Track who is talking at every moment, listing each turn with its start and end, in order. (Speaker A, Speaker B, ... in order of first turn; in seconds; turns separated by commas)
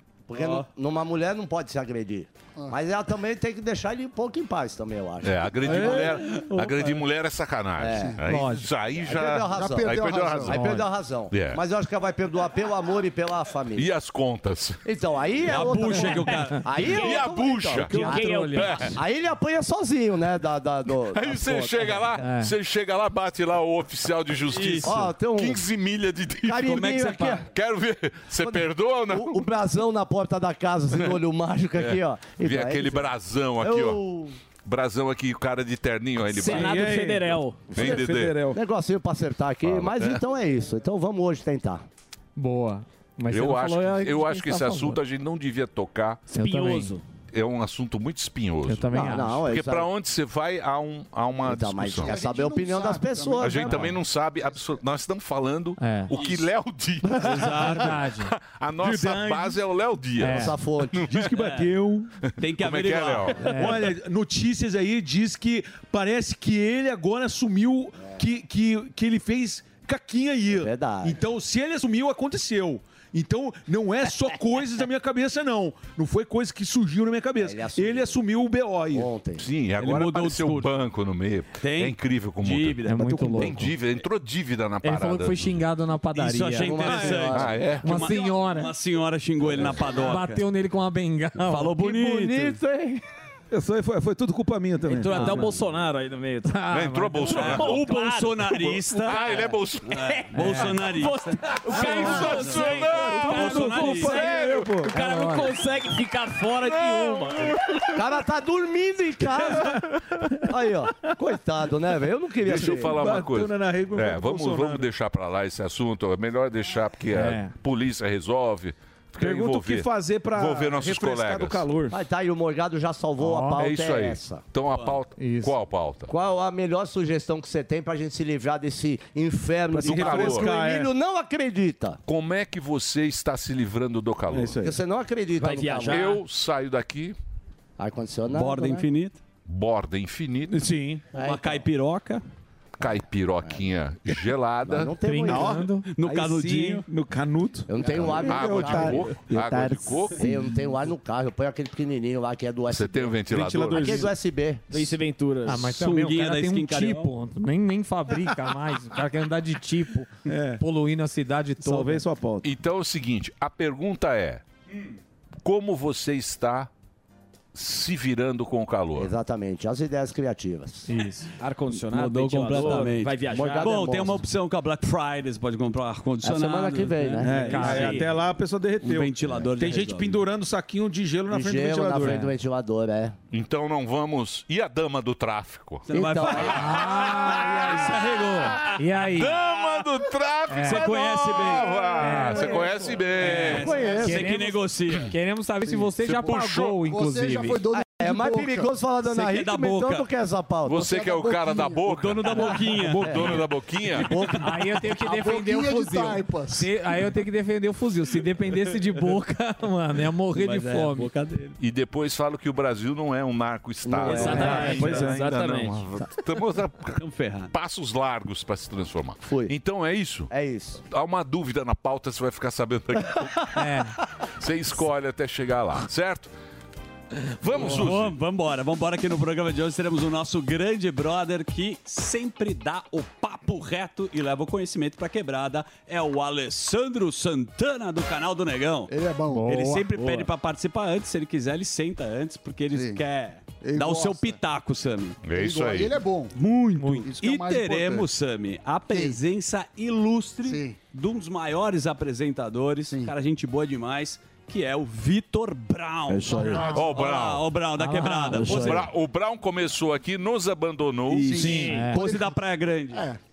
Speaker A: 0.3-6.1, Speaker B: 0.3-0.7, Speaker C: 5.2-10.8, Speaker B: 5.6-7.0, Speaker A: 7.8-8.2, Speaker D: 8.3-8.7, Speaker A: 8.9-13.9, Speaker E: 9.5-10.6, Speaker C: 11.3-11.6, Speaker C: 13.8-14.8, Speaker A: 14.8-18.3, Speaker B: 15.4-16.9, Speaker C: 16.8-19.0, Speaker F: 17.9-18.9, Speaker D: 18.0-18.7, Speaker A: 18.9-22.1, Speaker C: 21.1-29.4, Speaker D: 22.2-22.5, Speaker B: 24.5-25.1, Speaker A: 24.8-25.6, Speaker A: 26.4-27.4, Speaker B: 26.6-27.4, Speaker A: 28.4-34.4, Speaker C: 31.8-34.0, Speaker C: 34.6-36.9, Speaker F: 36.2-37.7, Speaker G: 36.4-38.6, Speaker C: 37.7-38.5, Speaker A: 38.5-41.8, Speaker C: 39.6-40.2, Speaker D: 42.4-45.0, Speaker C: 43.3-46.2, Speaker D: 46.3-46.9, Speaker F: 46.3-47.0, Speaker C: 47.3-52.2, Speaker D: 48.6-49.4, Speaker A: 48.9-49.9, Speaker A: 51.4-54.0, Speaker E: 52.0-53.9, Speaker C: 53.4-61.3, Speaker D: 55.8-56.1, Speaker B: 56.1-56.5, Speaker B: 57.2-57.9, Speaker G: 57.3-57.6, Speaker D: 57.4-58.3, Speaker G: 58.8-59.7, Speaker D: 60.2-60.5, Speaker A: 60.2-61.1, Speaker G: 61.0-62.1, Speaker B: 61.3-61.7, Speaker C: 62.3-63.6, Speaker B: 62.4-63.6, Speaker D: 63.4-63.9, Speaker G: 63.5-79.1, Speaker A: 70.5-71.2, Speaker A: 77.4-78.2, Speaker A: 78.9-79.4, Speaker C: 79.4-85.5, Speaker B: 79.8-80.7, Speaker B: 81.6-83.0, Speaker D: 82.8-83.7, Speaker G: 83.0-83.7, Speaker D: 84.8-87.1, Speaker B: 86.1-90.5, Speaker A: 86.6-87.6, Speaker G: 86.8-87.3, Speaker C: 87.3-88.0, Speaker D: 87.8-88.7, Speaker D: 89.7-91.9, Speaker B: 91.4-92.6, Speaker F: 91.8-93.0, Speaker G: 93.5-95.4, Speaker F: 94.8-96.5, Speaker D: 95.1-95.6, Speaker D: 96.5-97.6, Speaker C: 96.7-97.9, Speaker B: 97.2-104.2, Speaker F: 97.3-98.8, Speaker C: 98.9-100.0, Speaker F: 99.9-104.4, Speaker D: 100.3-100.7, Speaker C: 101.6-104.7, Speaker G: 103.0-104.9, Speaker F: 104.9-107.9, Speaker D: 104.9-105.5, Speaker C: 106.8-107.8, Speaker A: 107.9-109.8, Speaker A: 110.4-113.1, Speaker C: 112.4-121.7, Speaker G: 112.5-114.9, Speaker D: 117.1-117.5, Speaker G: 119.2-122.0, Speaker A: 121.9-124.4, Speaker D: 123.2-123.7, Speaker C: 123.6-126.1, Speaker B: 124.7-125.0, Speaker D: 125.2-125.5, Speaker A: 126.1-132.0, Speaker G: 129.7-130.9, Speaker C: 129.8-130.5, Speaker C: 132.1-134.6, Speaker G: 134.3-134.8, Speaker A: 134.6-136.1, Speaker F: 135.4-136.2, Speaker C: 135.9-137.2, Speaker A: 137.8-138.9, Speaker B: 138.3-139.2, Speaker C: 139.4-140.7, Speaker G: 140.5-141.1, Speaker B: 141.1-142.2, Speaker A: 141.1-141.6, Speaker A: 142.8-143.6, Speaker C: 142.8-144.9, Speaker A: 144.6-145.7, Speaker D: 145.0-145.9, Speaker G: 145.2-150.4, Speaker B: 145.9-146.9, Speaker A: 147.7-154.9, Speaker C: 148.1-150.3, Speaker C: 152.7-154.1, Speaker G: 153.2-154.1, Speaker F: 154.7-155.7, Speaker D: 155.4-162.0, Speaker B: 155.7-157.1, Speaker G: 160.2-160.6, Speaker G: 161.6-162.5, Speaker C: 162.4-164.4, Speaker C: 165.4-166.7, Speaker C: 167.5-169.1, Speaker A: 168.9-170.9, Speaker D: 170.9-171.3, Speaker F: 171.4-174.2, Speaker B: 171.7-178.1, Speaker A: 173.2-174.2, Speaker A: 176.2-177.7, Speaker G: 177.2-182.3, Speaker D: 177.3-178.0, Speaker F: 177.7-178.0, Speaker B: 178.8-180.2, Speaker A: 181.3-183.2, Speaker C: 183.3-185.9, Speaker B: 185.9-188.7, Speaker A: 185.9-186.6, Speaker D: 186.4-189.4, Speaker C: 189.1-193.8, Speaker D: 190.5-190.9, Speaker B: 190.6-191.9, Speaker D: 192.0-192.6, Speaker B: 192.5-195.1, Speaker E: 192.6-192.9, Speaker D: 193.2-197.6, Speaker E: 193.6-194.3, Speaker E: 196.0-198.7, Speaker C: 196.0-196.8, Speaker A: 197.7-200.9, Speaker B: 199.0-200.1, Speaker C: 200.6-204.1, Speaker E: 200.7-201.9, Speaker B: 201.9-204.5, Speaker A: 202.9-204.4, Speaker D: 204.4-211.1, Speaker E: 205.0-206.7, Speaker B: 208.5-209.2, Speaker B: 210.3-211.6, Speaker C: 211.6-217.0, Speaker A: 213.8-214.8, Speaker F: 214.1-215.8, Speaker D: 214.1-215.0, Speaker G: 214.4-215.3, Speaker B: 216.9-217.5, Speaker C: 217.5-220.3, Speaker A: 219.2-219.5, Speaker A: 220.3-220.8, Speaker C: 220.9-223.6, Speaker D: 223.5-223.9, Speaker C: 224.4-226.3, Speaker C: 227.1-228.2, Speaker B: 227.5-238.9, Speaker E: 238.9-239.7, Speaker D: 239.3-240.2, Speaker B: 239.5-245.2, Speaker E: 242.7-243.0, Speaker E: 243.6-244.4, Speaker C: 245.2-246.0, Speaker E: 245.3-246.4, Speaker B: 246.3-258.9, Speaker D: 246.8-247.1, Speaker E: 247.0-248.1, Speaker E: 248.9-249.2, Speaker E: 250.4-250.8, Speaker E: 252.9-253.1, Speaker G: 256.1-256.7, Speaker E: 256.4-256.9, Speaker C: 256.7-257.5, Speaker D: 257.8-258.7, Speaker C: 258.5-261.4, Speaker G: 261.1-261.8, Speaker E: 261.2-263.2, Speaker B: 261.4-263.1, Speaker D: 261.6-262.0